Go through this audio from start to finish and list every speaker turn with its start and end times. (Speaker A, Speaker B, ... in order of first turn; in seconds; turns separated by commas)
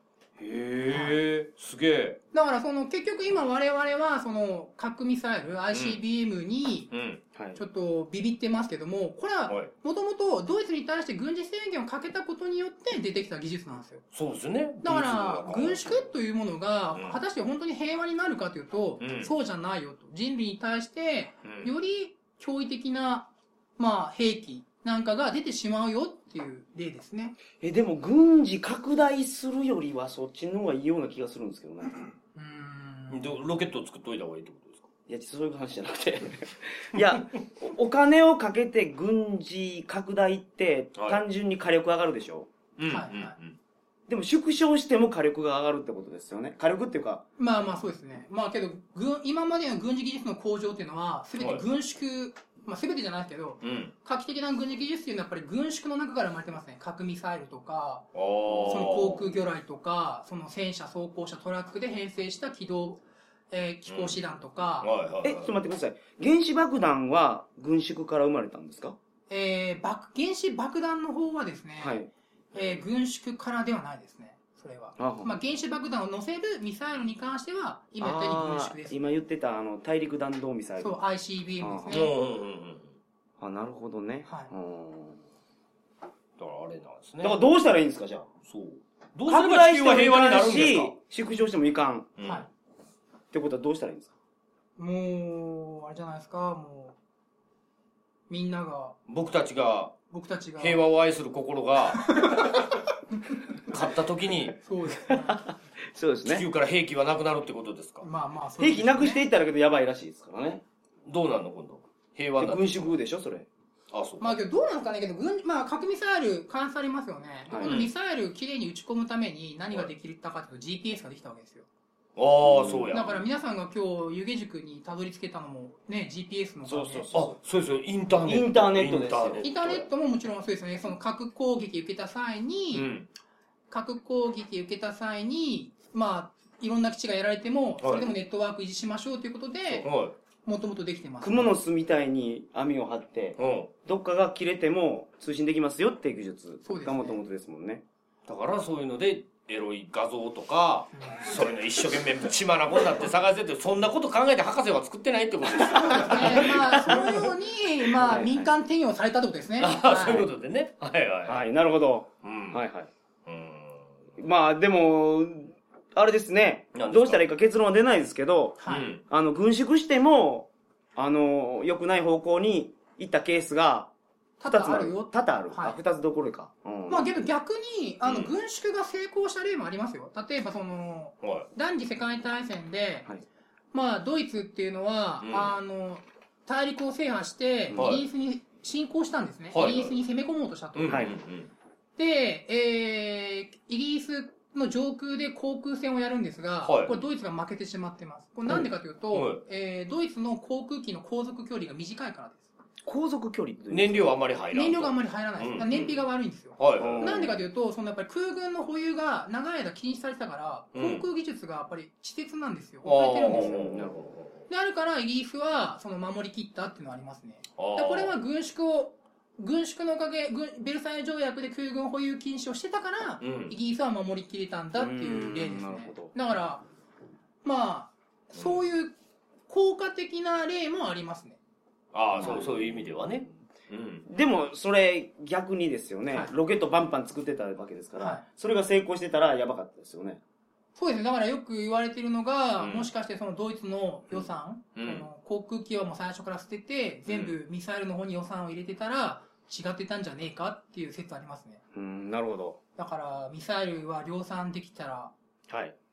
Speaker A: 0.4-2.2, Speaker B: 0.9-1.2, Speaker B: 2.3-6.9, Speaker A: 5.7-6.0, Speaker A: 6.9-7.2, Speaker C: 7.3-7.6, Speaker B: 7.5-14.0, Speaker A: 14.1-16.0, Speaker B: 14.8-27.3, Speaker A: 19.0-19.3, Speaker A: 21.4-21.7, Speaker C: 27.6-32.0, Speaker B: 32.3-33.4, Speaker A: 33.1-34.8, Speaker C: 35.1-42.5, Speaker A: 42.8-43.5, Speaker B: 42.9-43.3, Speaker C: 44.1-47.2, Speaker B: 47.4-58.1, Speaker A: 51.4-51.6, Speaker A: 53.6-53.9, Speaker A: 58.1-59.3, Speaker B: 58.6-64.9, Speaker A: 63.9-64.2, Speaker A: 64.8-65.5, Speaker C: 65.2-69.0, Speaker B: 69.3-72.0, Speaker C: 71.8-72.1, Speaker B: 72.5-79.2, Speaker C: 75.0-75.3, Speaker C: 78.0-81.0, Speaker B: 80.8-82.1, Speaker C: 81.6-82.0, Speaker A: 81.9-82.9, Speaker C: 83.4-85.2, Speaker B: 84.2-84.5, Speaker A: 86.4-87.4, Speaker C: 87.2-88.3, Speaker A: 88.5-90.9, Speaker C: 89.3-92.1, Speaker A: 92.2-92.4, Speaker B: 92.2-92.5, Speaker C: 93.3-94.1, Speaker B: 94.8-96.9, Speaker B: 98.3-99.0, Speaker A: 99.1-99.9, Speaker B: 100.1-100.8, Speaker A: 100.6-102.1, Speaker B: 102.1-102.5, Speaker A: 103.7-104.6, Speaker B: 104.6-105.4, Speaker C: 105.2-106.5, Speaker A: 106.2-108.0, Speaker B: 108.0-109.2, Speaker C: 108.6-110.6, Speaker A: 111.0-112.9, Speaker C: 112.4-113.5, Speaker A: 113.9-114.4, Speaker B: 114.2-121.7, Speaker C: 117.5-117.8, Speaker A: 117.6-117.9, Speaker A: 122.2-123.2, Speaker C: 122.4-122.9, Speaker B: 122.9-127.1, Speaker C: 126.6-127.3, Speaker A: 127.1-129.7, Speaker C: 128.2-129.8, Speaker B: 129.4-132.9, Speaker A: 132.7-133.1, Speaker B: 133.7-139.9, Speaker A: 137.8-138.1, Speaker A: 139.7-140.1, Speaker B: 140.4-141.5, Speaker C: 141.2-147.8, Speaker A: 143.4-143.7, Speaker B: 146.6-147.2, Speaker A: 148.3-156.5, Speaker B: 151.0-151.2, Speaker B: 155.8-160.2, Speaker C: 156.3-157.2, Speaker C: 157.9-158.4, Speaker A: 159.6-161.4, Speaker C: 161.3-162.9, Speaker A: 162.2-162.6, Speaker A: 163.3-163.9, Speaker C: 164.2-173.9, Speaker A: 166.7-167.2, Speaker B: 168.6-168.8, Speaker A: 168.7-169.0, Speaker B: 174.4-175.8, Speaker C: 174.5-177.1, Speaker B: 176.9-183.1, Speaker A: 178.0-178.3, Speaker B: 183.7-191.1, Speaker A: 185.2-185.5, Speaker A: 187.7-188.0, Speaker A: 189.5-189.9, Speaker A: 190.7-191.5, Speaker C: 190.9-191.2, Speaker B: 192.0-202.5, Speaker A: 196.6-197.0, Speaker A: 199.1-199.4, Speaker C: 202.8-204.2, Speaker A: 203.7-206.0, Speaker B: 204.5-213.7, Speaker A: 206.6-207.2, Speaker C: 206.8-207.4, Speaker A: 210.7-211.0, Speaker A: 212.8-214.3, Speaker C: 213.3-214.1, Speaker B: 214.5-226.6, Speaker A: 217.6-218.1, Speaker A: 223.2-223.5, Speaker C: 224.8-226.1, Speaker B: 227.4-228.9, Speaker B: 229.5-231.4, Speaker A: 231.9-234.0, Speaker C: 232.1-233.0, Speaker B: 232.2-232.4, Speaker C: 234.1-240.2, Speaker B: 240.8-251.6, Speaker A: 242.6-242.9, Speaker A: 244.8-245.0, Speaker C: 251.7-252.6, Speaker B: 252.8-255.1, Speaker C: 255.5-255.7